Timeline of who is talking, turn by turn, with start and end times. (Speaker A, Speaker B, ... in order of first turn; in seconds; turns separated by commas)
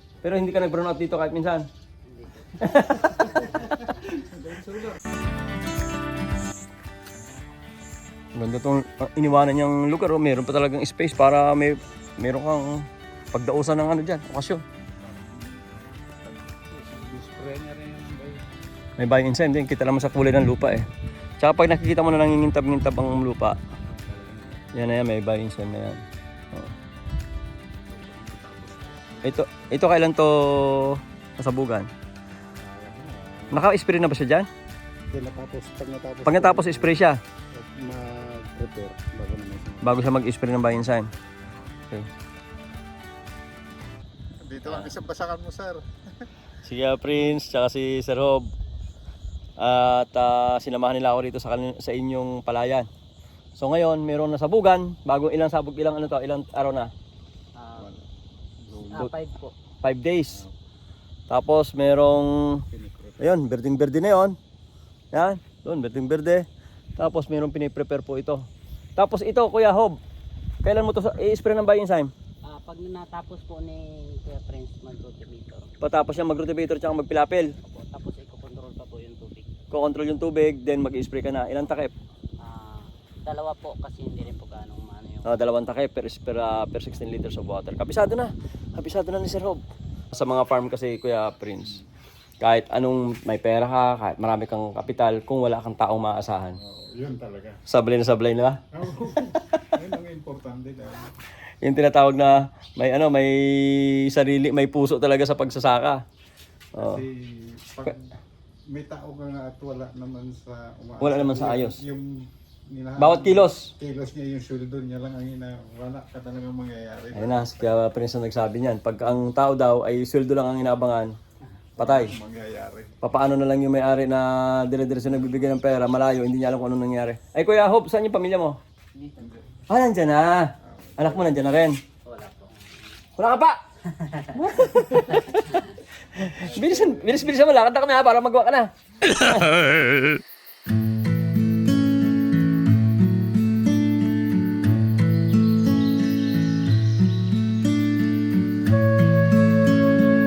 Speaker A: 0.2-1.7, Speaker B: 2.1-3.2, Speaker A: 2.6-3.5, Speaker C: 3.3-5.0, Speaker A: 8.3-14.6, Speaker C: 15.0-18.4, Speaker A: 19.0-20.9, Speaker A: 21.4-23.6, Speaker C: 23.8-24.8, Speaker A: 24.7-26.0, Speaker C: 27.9-29.5, Speaker A: 29.2-31.9, Speaker C: 32.6-33.6, Speaker A: 33.5-34.5, Speaker C: 35.1-37.0, Speaker A: 36.3-37.2, Speaker C: 37.5-40.0, Speaker A: 39.8-41.1, Speaker C: 44.4-45.8, Speaker A: 44.6-44.9, Speaker A: 46.6-48.5, Speaker A: 49.6-52.9, Speaker A: 53.6-56.9, Speaker B: 57.6-57.9, Speaker C: 57.8-58.1, Speaker C: 58.6-59.1, Speaker B: 58.9-59.5, Speaker A: 59.8-60.4, Speaker A: 61.3-62.6, Speaker C: 62.7-63.4, Speaker A: 63.2-64.4, Speaker A: 65.1-66.5, Speaker A: 67.0-68.5, Speaker A: 69.0-70.0, Speaker A: 70.6-72.1, Speaker B: 72.5-75.8, Speaker A: 75.8-77.5, Speaker B: 77.6-79.5, Speaker A: 79.7-82.0, Speaker B: 82.4-85.4, Speaker A: 85.2-89.6, Speaker A: 90.1-91.8, Speaker A: 92.4-96.6, Speaker C: 96.6-97.6, Speaker A: 97.7-99.7, Speaker C: 98.7-101.1, Speaker A: 101.6-106.0, Speaker A: 106.8-107.0, Speaker C: 106.8-108.1, Speaker C: 108.7-117.7, Speaker A: 111.0-111.8, Speaker A: 113.0-113.7, Speaker A: 117.1-121.1, Speaker A: 121.8-122.2, Speaker C: 121.8-123.0, Speaker A: 123.0-128.6, Speaker B: 129.0-129.3, Speaker A: 129.7-131.8, Speaker C: 130.6-131.3, Speaker B: 132.1-132.7, Speaker A: 133.2-133.6, Speaker B: 133.9-134.5, Speaker A: 134.3-140.1, Speaker C: 136.3-137.3